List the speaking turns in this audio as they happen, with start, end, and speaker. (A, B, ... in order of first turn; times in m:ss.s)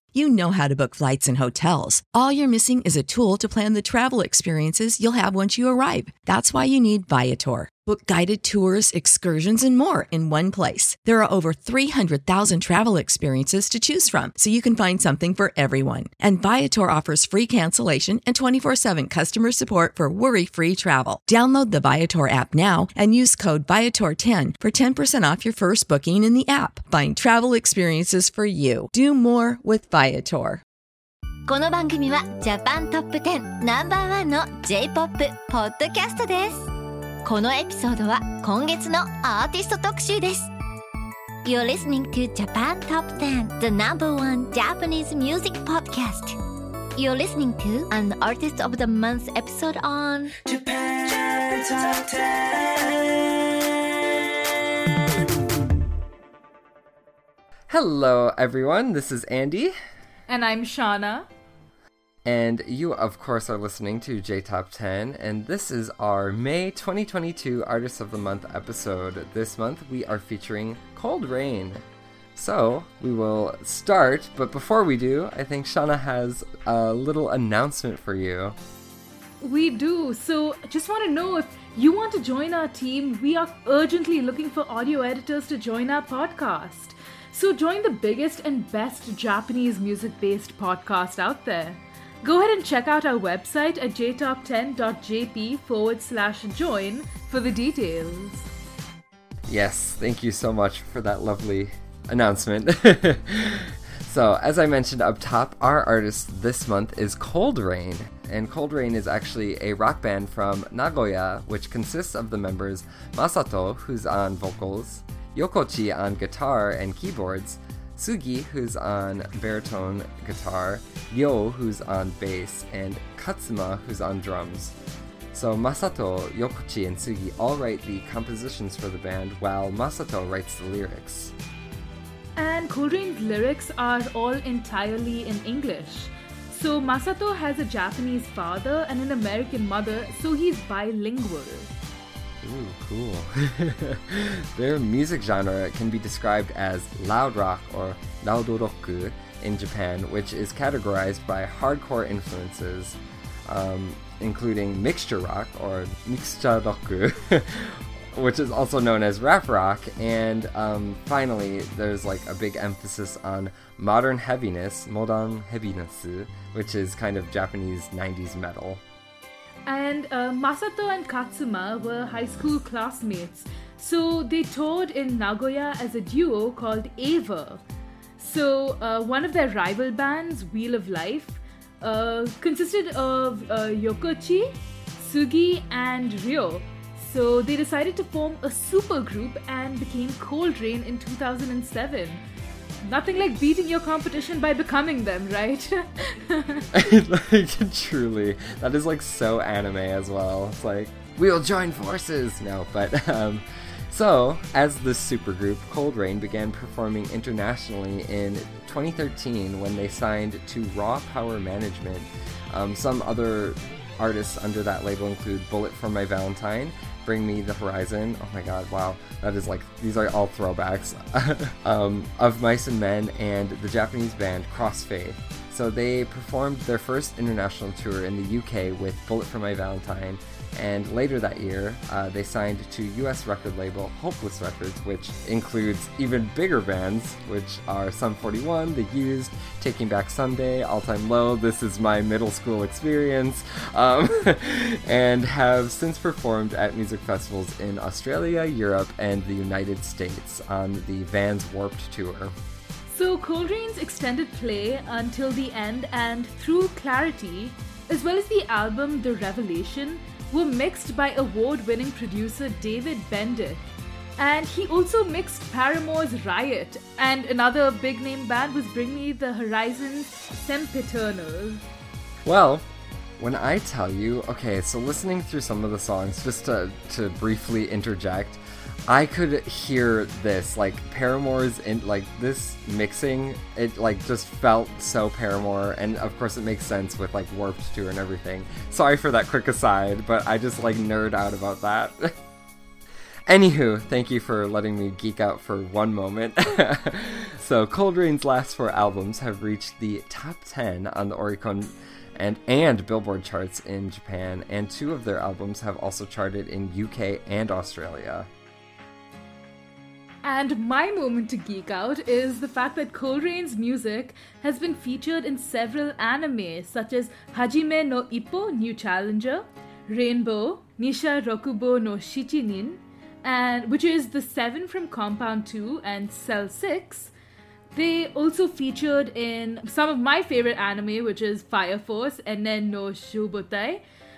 0:00.1-0:30.6 A
0:31.5-0:36.7 B
0:37.2-0:40.5 B
0:41.4-0:46.4 B
0:47.0-0:50.3 B
0:50.4-0:53.1 C
0:57.7-0:59.7 D
1:00.3-1:01.3 E
1:02.2-1:11.8 D
1:12.4-1:18.6 D
1:19.4-1:38.5 E
1:39.5-2:04.8 D
2:05.3-2:11.3 D
2:12.4-2:21.7 E
2:22.4-2:48.8 D
2:49.7-2:57.6 E
2:58.2-3:12.2 E
3:12.8-3:16.7 E
3:16.8-4:12.3 D
4:12.9-4:23.6 E
4:24.2-4:31.6 E
4:32.2-4:32.6 D
4:33.2-4:52.1 D
4:53.3-5:08.3 D
5:10.2-5:27.1 E
5:27.7-5:33.8 E